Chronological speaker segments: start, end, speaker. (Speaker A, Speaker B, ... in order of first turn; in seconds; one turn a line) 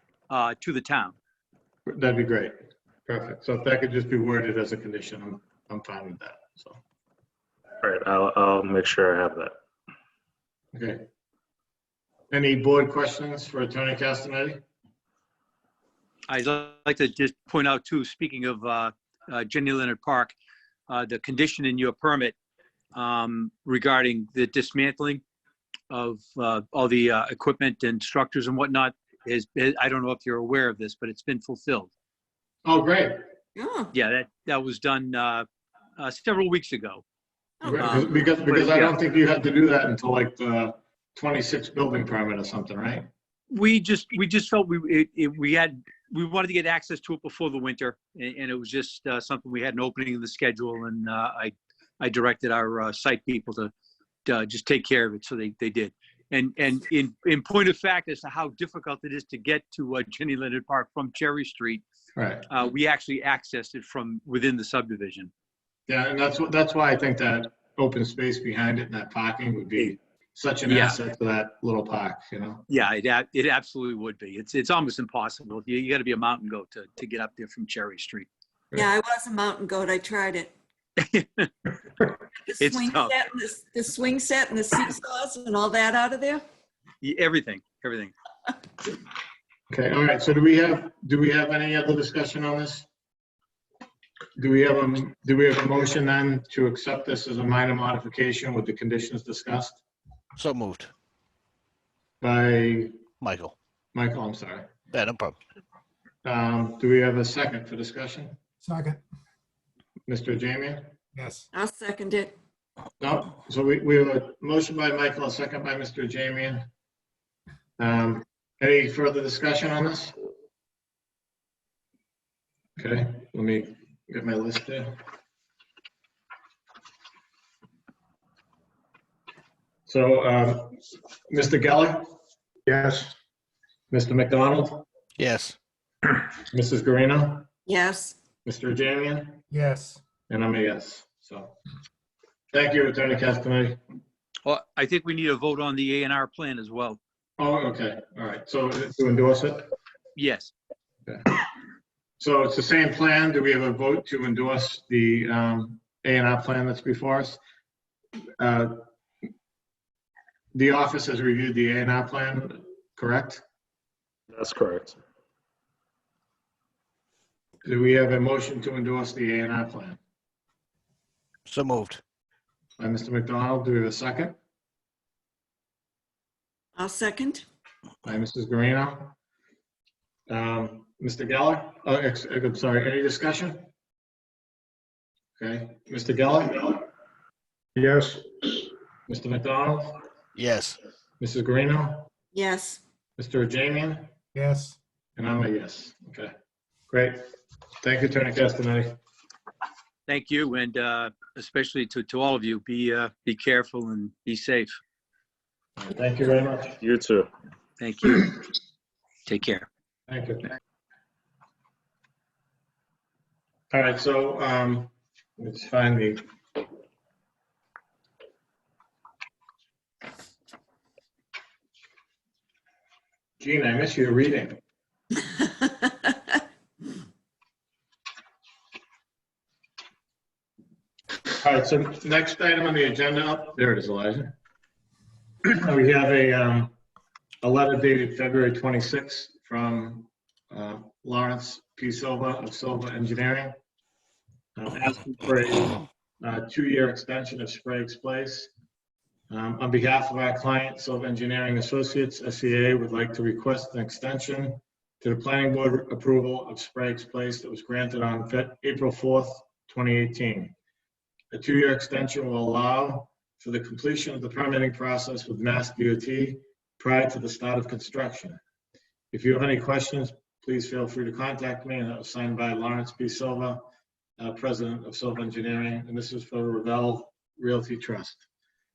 Speaker A: 0.3-1.1
Speaker B: 1.9-2.5
Speaker B: 3.1-6.8
Speaker C: 7.8-9.5
Speaker B: 10.7-11.1
Speaker B: 12.3-14.6
Speaker A: 16.3-20.3
Speaker A: 20.9-22.3
Speaker A: 22.9-25.2
Speaker A: 25.9-31.9
Speaker B: 32.6-33.1
Speaker D: 33.5-33.9
Speaker A: 33.9-35.5
Speaker A: 36.0-37.0
Speaker D: 37.6-37.9
Speaker B: 37.6-43.1
Speaker A: 37.8-39.0
Speaker A: 43.5-53.7
Speaker A: 54.2-61.8
Speaker B: 62.1-62.5
Speaker A: 62.5-65.3
Speaker B: 65.9-72.7
Speaker A: 70.7-71.0
Speaker A: 72.7-78.3
Speaker D: 78.7-80.5
Speaker A: 81.0-81.5
Speaker D: 82.5-86.4
Speaker A: 82.6-83.1
Speaker A: 87.0-88.1
Speaker B: 89.7-92.8
Speaker B: 94.4-99.8
Speaker E: 100.3-100.9
Speaker B: 102.2-103.0
Speaker E: 103.2-103.5
Speaker B: 103.9-104.7
Speaker E: 104.9-105.4
Speaker B: 106.2-108.3
Speaker F: 108.6-109.0
Speaker B: 110.1-110.9
Speaker F: 111.2-111.5
Speaker D: 111.5-112.3
Speaker B: 113.0-116.7
Speaker B: 117.8-120.1
Speaker B: 122.8-124.9
Speaker B: 129.9-130.8
Speaker B: 131.3-132.1
Speaker F: 132.7-133.1
Speaker B: 133.9-134.8
Speaker E: 135.2-135.6
Speaker B: 136.1-137.5
Speaker D: 137.7-138.2
Speaker B: 138.4-139.4
Speaker F: 139.5-140.0
Speaker B: 140.3-141.6
Speaker B: 142.5-143.8
Speaker A: 144.4-147.0
Speaker B: 147.4-149.7
Speaker A: 150.2-150.5
Speaker B: 151.1-151.4
Speaker B: 152.2-157.4
Speaker B: 158.4-158.8
Speaker B: 160.5-163.4
Speaker C: 164.3-165.0
Speaker B: 167.6-170.0
Speaker E: 171.5-172.0
Speaker B: 172.8-174.3
Speaker D: 176.8-177.4
Speaker B: 178.0-179.1
Speaker B: 180.3-183.7
Speaker B: 185.4-186.8
Speaker B: 189.1-190.0
Speaker E: 190.3-190.8
Speaker B: 191.2-192.1
Speaker D: 192.3-192.8
Speaker B: 193.2-194.1
Speaker F: 194.3-194.8
Speaker B: 195.2-196.3
Speaker B: 196.9-197.2
Speaker B: 197.8-199.0
Speaker A: 200.1-204.8
Speaker B: 205.8-206.8
Speaker C: 206.8-207.3
Speaker A: 207.8-208.4
Speaker A: 209.3-209.7
Speaker B: 210.1-210.5
Speaker B: 213.7-216.2
Speaker B: 223.4-224.6
Speaker B: 231.3-234.3
Speaker B: 235.4-236.7
Speaker B: 237.4-243.5
Speaker B: 244.6-248.5
Speaker B: 249.3-260.5
Speaker B: 261.3-268.4
Speaker B: 269.1-273.6
Speaker B: 274.2-278.2